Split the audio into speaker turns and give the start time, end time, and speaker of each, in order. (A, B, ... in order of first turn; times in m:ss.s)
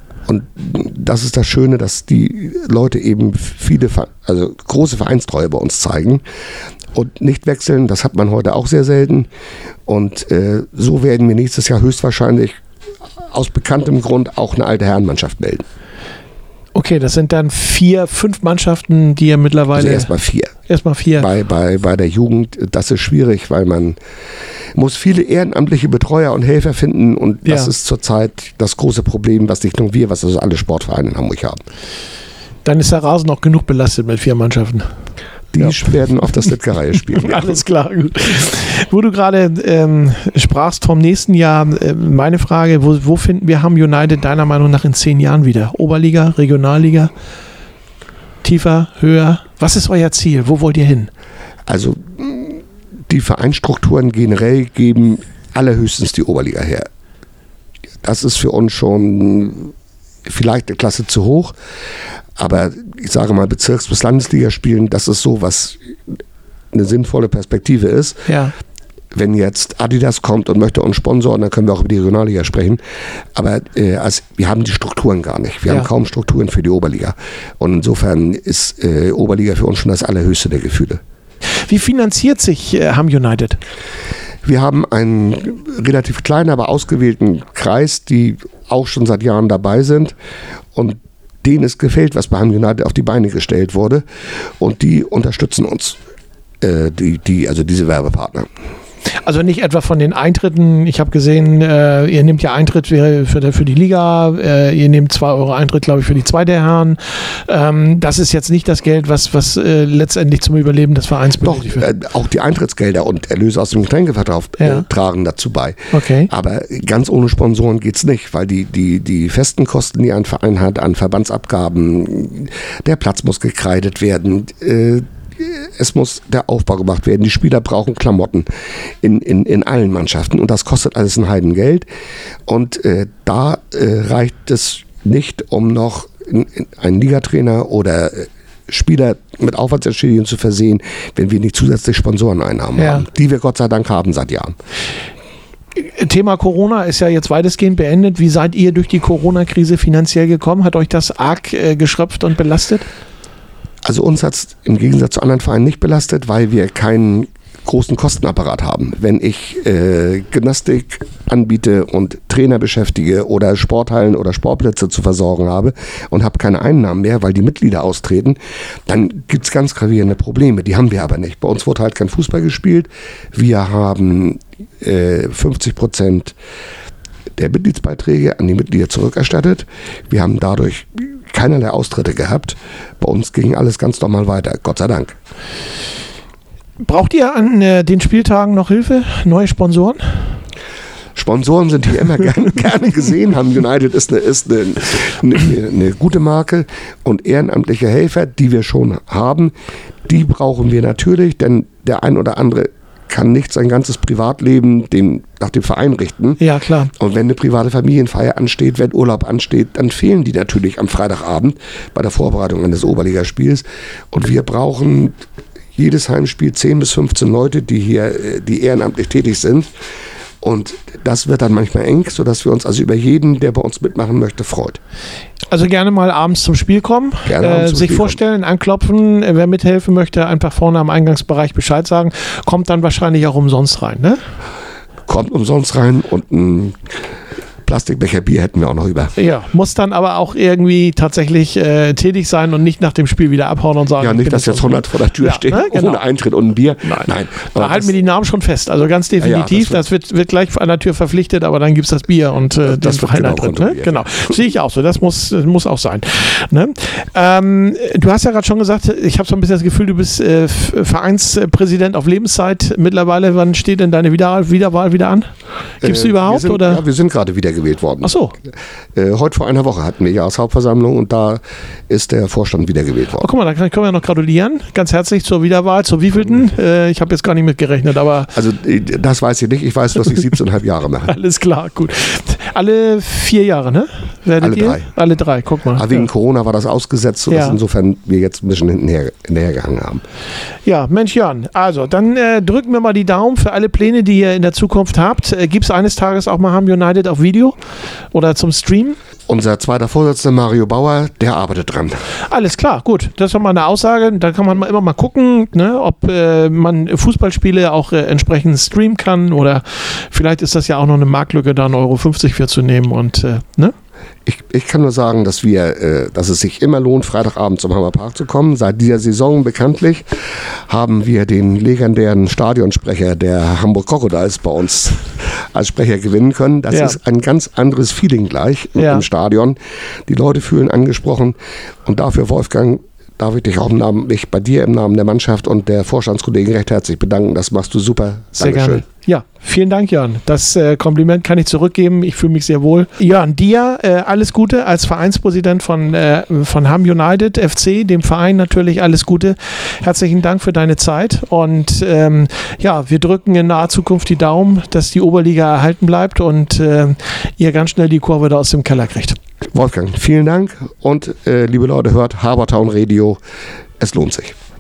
0:00.2-0:06.2 A
0:06.9-0:09.3 A
0:09.9-0:12.6 A
0:13.3-0:15.6 A
0:16.7-0:20.1 B
0:19.8-0:20.5 A
0:20.7-0:21.3 B
0:21.2-0:24.0 A
0:24.8-0:31.6 A
0:27.4-0:27.7 B
0:32.6-0:34.9 B
0:35.5-0:37.6 A
0:37.2-0:47.1 B
0:48.4-0:51.1 B
0:51.7-0:56.9 A
0:58.0-0:59.7 A
1:00.2-1:01.6 A
1:02.4-1:05.8 A
1:06.7-1:08.2 A
1:08.3-1:08.5 B
1:09.1-1:12.8 A
1:13.4-1:21.0 A
1:21.7-1:23.6 B
1:24.4-1:30.1 A
1:30.7-1:34.0 A
1:34.6-1:36.0 A
1:36.6-1:38.5 A
1:39.2-1:51.8 B
1:51.4-1:55.8 A
1:54.6-1:54.9 B
1:55.9-1:56.3 B
1:56.3-2:08.5 A
2:09.0-2:11.9 A
2:12.5-2:24.5 A
2:22.8-2:23.1 B
2:25.8-2:32.9 B
2:33.8-2:56.4 A
2:57.4-3:05.2 A
3:06.8-3:10.4 B
3:11.1-3:19.5 A
3:20.1-3:26.4 A
3:26.4-3:26.9 B
3:26.9-3:35.1 A
3:35.8-3:39.7 A
3:40.4-3:44.8 A
3:45.5-3:54.2 B
3:47.3-3:48.2 A
3:55.1-3:56.8 A
3:57.6-3:59.1 A
3:59.2-4:06.0 B
4:04.0-4:07.9 A
4:06.8-4:26.8 B
4:09.2-4:09.8 A
4:12.6-4:14.1 A
4:25.8-4:28.1 A
4:28.0-4:28.4 B
4:29.0-4:33.3 A
4:33.2-4:38.3 B
4:38.3-4:41.1 A
4:41.1-4:46.1 B
4:44.4-4:44.9 A
4:45.7-4:50.0 A
4:47.3-4:47.6 B
4:50.6-4:57.6 B
4:58.1-4:59.0 B
4:59.3-5:02.0 A
5:02.3-5:13.7 B
5:14.2-5:38.8 A
5:26.7-5:27.0 B
5:28.8-5:29.0 B
5:38.4-5:59.2 B
5:59.5-6:03.2 A
6:03.8-6:04.3 A